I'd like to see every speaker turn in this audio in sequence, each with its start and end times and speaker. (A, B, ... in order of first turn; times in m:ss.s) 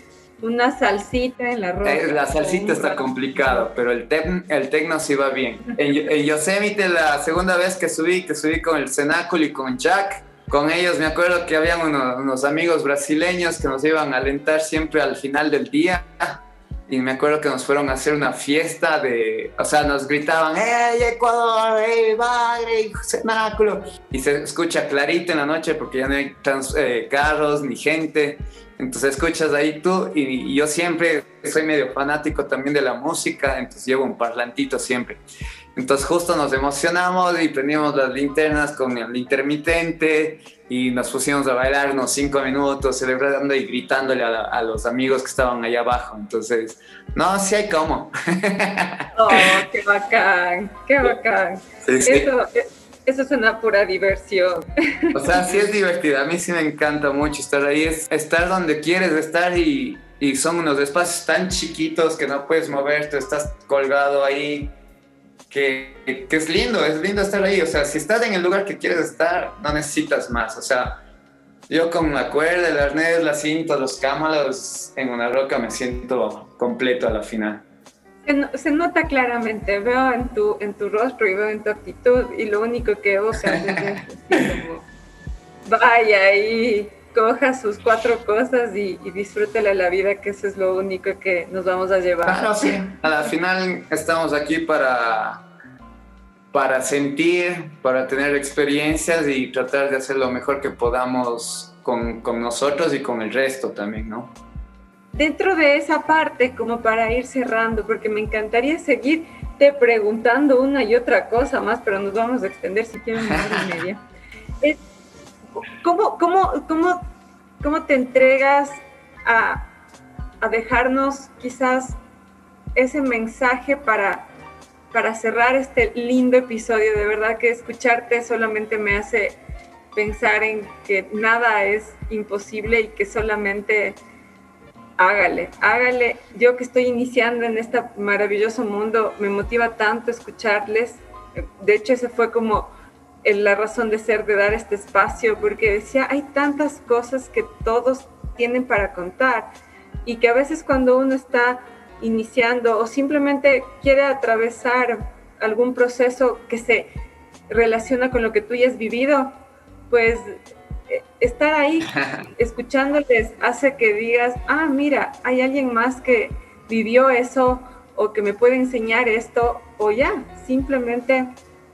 0:00.4-0:03.7 A
0:01.8-0:35.2 B
0:35.8-0:49.1 B
0:49.1-0:55.5 A
0:51.8-0:52.3 B
0:55.1-1:04.7 B
1:05.5-1:11.0 B
1:11.7-1:17.6 B
1:18.3-1:24.9 A
1:25.7-1:32.8 A
1:32.2-1:35.4 B
1:36.5-1:44.3 B
1:45.1-1:54.0 A
1:55.6-1:57.0 A
1:57.6-1:59.7 A
2:00.4-2:02.0 A
2:02.8-2:04.3 A
2:04.9-2:09.4 A
2:09.9-2:14.0 A
2:15.0-2:22.7 A
2:23.2-2:29.5 A
2:30.0-2:36.9 A
2:37.5-2:39.4 A
2:39.9-2:51.3 A